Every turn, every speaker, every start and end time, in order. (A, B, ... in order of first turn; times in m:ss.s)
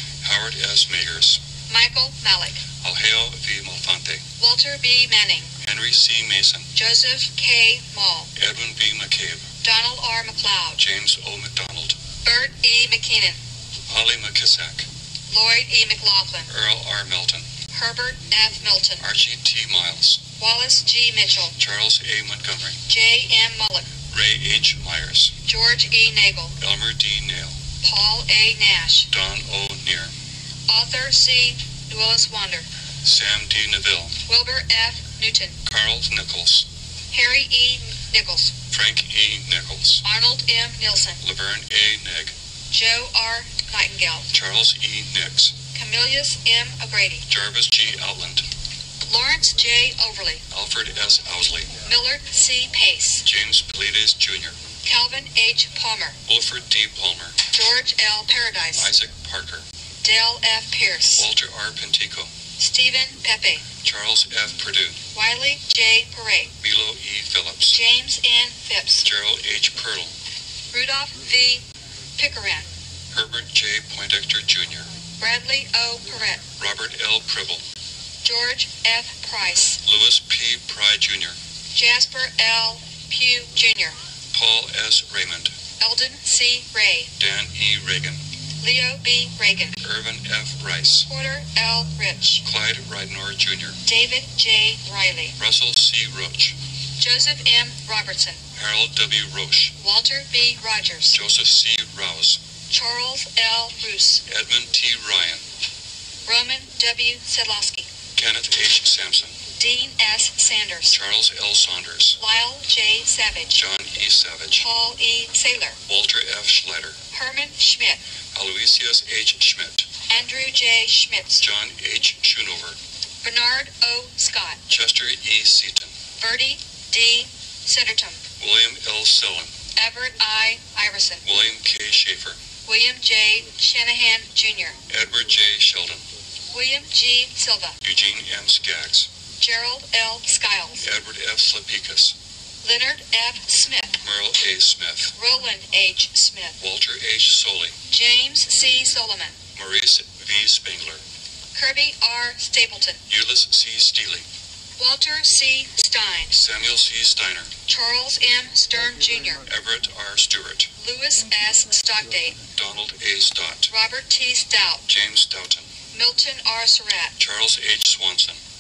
0:00.2-0:01.4 A
0:01.7-0:02.8 B
0:02.8-0:04.3 A
0:04.4-0:05.5 B
0:05.6-0:06.7 A
0:06.8-0:08.3 B
0:08.4-0:09.5 A
0:09.6-0:10.8 B
0:10.8-0:12.0 A
0:12.2-0:13.4 B
0:13.9-0:14.9 A
0:15.3-0:16.5 B
0:16.5-0:17.6 A
0:17.6-0:19.1 B
0:19.0-0:20.3 A
0:20.3-0:21.6 B
0:21.6-0:22.8 A
0:22.9-0:24.0 B
0:24.1-0:25.3 A
0:25.4-0:26.6 B
0:26.6-0:27.6 A
0:27.8-0:29.1 B
0:29.1-0:30.1 A
0:30.7-0:32.7 B
0:33.0-0:34.2 A
0:34.3-0:35.6 B
0:35.6-0:36.7 A
0:37.1-0:38.6 B
0:38.7-0:40.0 A
0:40.0-0:41.2 B
0:41.2-0:42.4 A
0:42.7-0:44.3 B
0:44.3-0:45.6 A
0:45.7-0:47.2 B
0:47.3-0:48.4 A
0:49.0-0:50.4 B
0:50.5-0:51.8 A
0:51.8-0:53.2 B
0:53.2-0:54.6 A
0:54.8-0:56.2 B
0:56.3-0:57.4 A
0:57.5-0:58.9 B
0:58.8-0:59.7 A
1:00.0-1:01.3 B
1:01.2-1:02.3 A
1:02.6-1:03.8 B
1:03.8-1:05.0 A
1:05.1-1:06.6 B
1:06.6-1:07.8 A
1:07.7-1:09.1 B
1:09.0-1:10.1 A
1:10.7-1:11.6 B
1:12.2-1:12.7 B
1:13.1-1:14.9 A
1:15.2-1:16.5 B
1:16.6-1:17.6 A
1:18.2-1:19.8 B
1:19.8-1:21.4 A
1:21.8-1:24.0 B
1:24.3-1:25.6 A
1:25.8-1:27.1 B
1:27.2-1:28.2 A
1:28.6-1:29.8 B
1:29.8-1:31.1 A
1:31.1-1:32.4 B
1:32.4-1:33.8 A
1:33.8-1:35.4 B
1:35.4-1:36.6 A
1:37.0-1:38.5 B
1:38.5-1:39.8 A
1:39.8-1:41.2 B
1:41.1-1:42.4 A
1:42.7-1:44.2 B
1:44.3-1:45.4 A
1:46.3-1:48.0 B
1:48.1-1:49.4 A
1:49.5-1:51.0 B
1:50.9-1:52.2 A
1:52.2-1:53.6 B
1:53.5-1:54.7 A
1:54.6-1:55.8 B
1:55.9-1:57.0 A
1:57.1-1:58.0 B
1:58.3-1:59.9 A
2:00.0-2:01.5 B
2:01.4-2:02.8 A
2:03.2-2:04.6 B
2:04.7-2:06.0 A
2:06.2-2:08.3 B
2:08.4-2:09.6 A
2:09.7-2:11.3 B
2:11.2-2:12.5 A
2:12.6-2:14.8 B
2:14.8-2:16.0 A
2:16.5-2:17.8 B
2:17.8-2:19.1 A
2:19.4-2:20.8 B
2:20.8-2:22.2 A
2:22.6-2:24.0 B
2:24.0-2:25.2 A
2:25.2-2:26.6 B
2:26.6-2:27.8 A
2:27.9-2:29.5 B
2:29.5-2:31.0 A
2:31.6-2:33.0 B
2:33.1-2:34.3 A
2:34.8-2:36.4 B
2:36.3-2:37.5 A
2:37.7-2:39.4 B
2:39.4-2:40.7 A
2:40.8-2:42.5 B
2:42.5-2:43.7 A
2:43.7-2:44.9 B
2:44.9-2:45.8 A
2:45.8-2:47.2 B
2:47.2-2:48.4 A